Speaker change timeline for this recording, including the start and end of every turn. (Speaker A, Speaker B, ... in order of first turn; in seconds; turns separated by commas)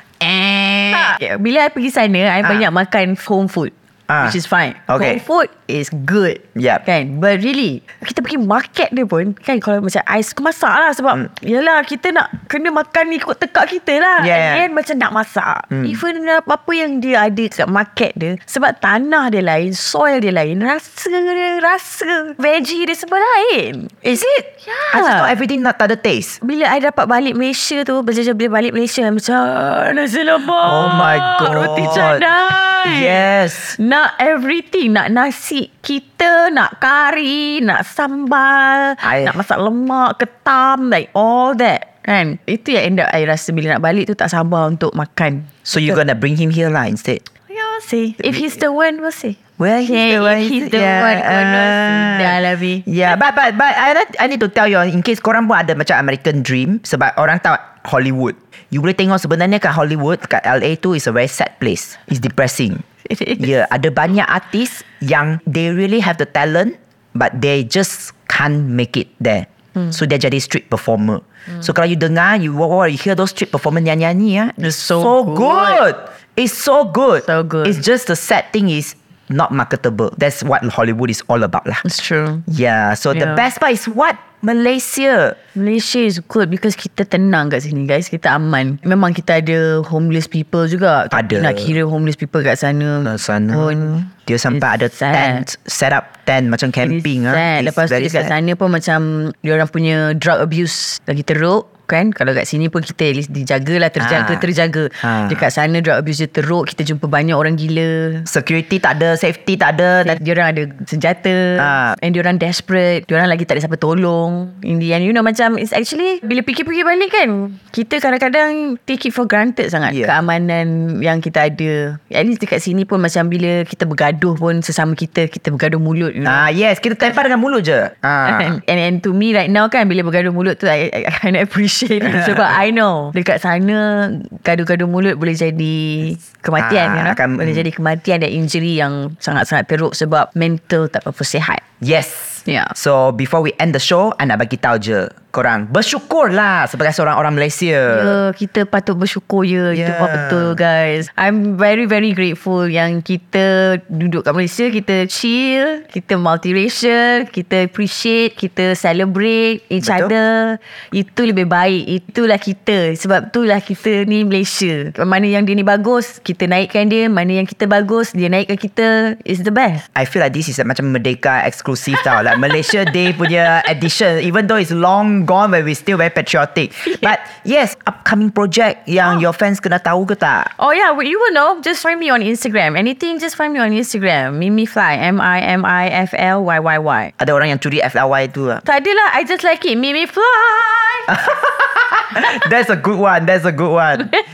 Speaker A: 0.2-1.2, Speaker B: 0.9-23.9, Speaker A: 4.1-4.4, Speaker A: 4.9-5.2, Speaker A: 6.5-6.8, Speaker A: 14.2-14.7, Speaker A: 15.7-16.0, Speaker A: 24.0-26.4, Speaker B: 24.6-25.4, Speaker B: 26.4-33.2, Speaker A: 30.6-32.2, Speaker A: 32.8-33.8, Speaker B: 33.8-46.0, Speaker A: 39.0-39.4, Speaker A: 45.7-47.2, Speaker B: 47.5-52.9, Speaker A: 49.6-62.8, Speaker B: 63.1-63.5, Speaker A: 63.4-81.8, Speaker B: 74.6-75.8, Speaker B: 77.2-77.8, Speaker B: 81.8-82.5, Speaker A: 82.5-85.4, Speaker B: 83.1-83.4, Speaker B: 85.5-95.5, Speaker A: 91.1-91.8, Speaker A: 93.0-98.3, Speaker B: 96.8-108.3, Speaker A: 104.0-104.5, Speaker A: 105.0-105.5, Speaker A: 108.3-110.2, Speaker B: 110.0-126.5, Speaker A: 111.6-112.0, Speaker A: 119.9-120.1, Speaker A: 126.2-128.6, Speaker B: 128.2-141.6, Speaker A: 132.0-132.6, Speaker A: 136.6-137.7, Speaker A: 141.8-148.2, Speaker B: 142.5-142.7, Speaker B: 147.9-169.9, Speaker A: 149.7-150.6, Speaker A: 159.8-160.1, Speaker A: 169.9-180.5, Speaker B: 180.6-187.1, Speaker A: 187.2-188.6, Speaker B: 188.7-191.2, Speaker A: 191.1-194.1